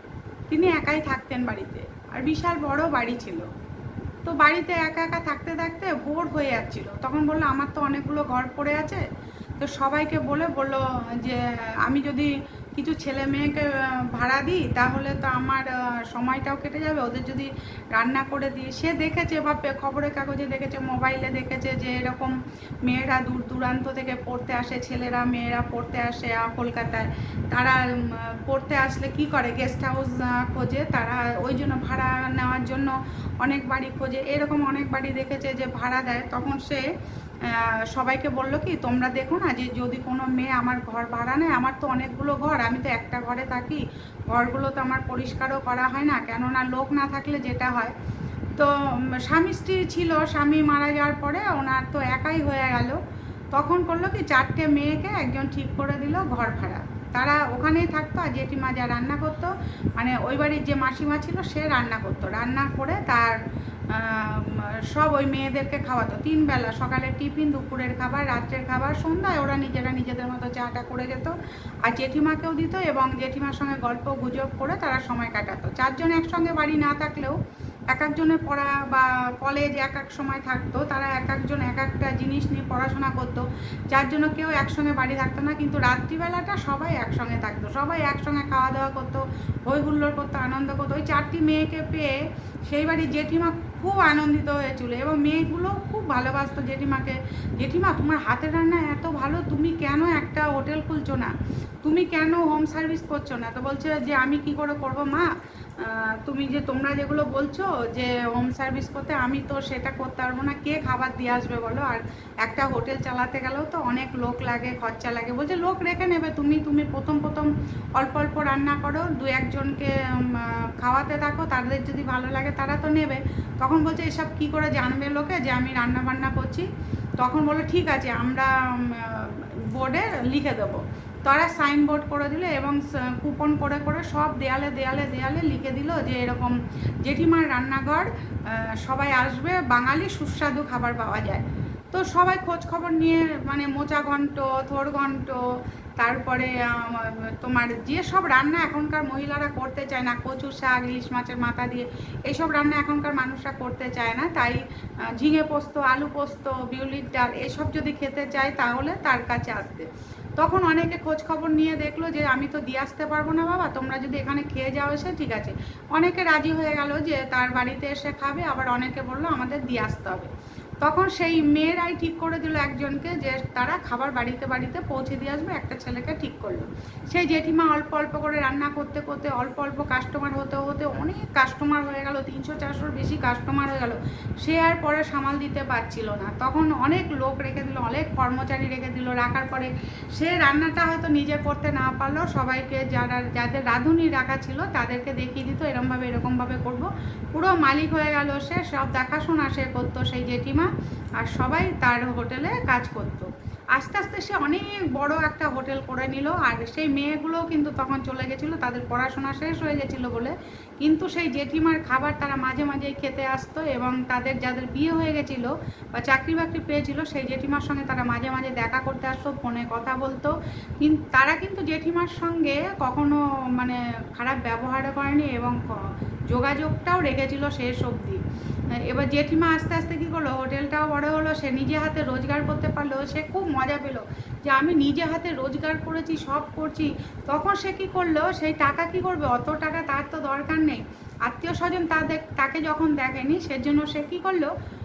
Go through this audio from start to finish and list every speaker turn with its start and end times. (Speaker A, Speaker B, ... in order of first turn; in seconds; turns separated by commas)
Speaker A: 0.5-3.5, Speaker A: 4.2-9.0, Speaker A: 9.6-36.9, Speaker A: 37.5-47.9, Speaker A: 48.6-53.0, Speaker A: 53.5-71.3, Speaker A: 71.8-77.4, Speaker A: 77.9-92.2, Speaker A: 92.7-101.3, Speaker A: 101.8-126.7, Speaker A: 127.2-145.4, Speaker A: 146.0-159.9, Speaker A: 160.4-170.3, Speaker A: 170.8-228.2, Speaker A: 228.9-244.5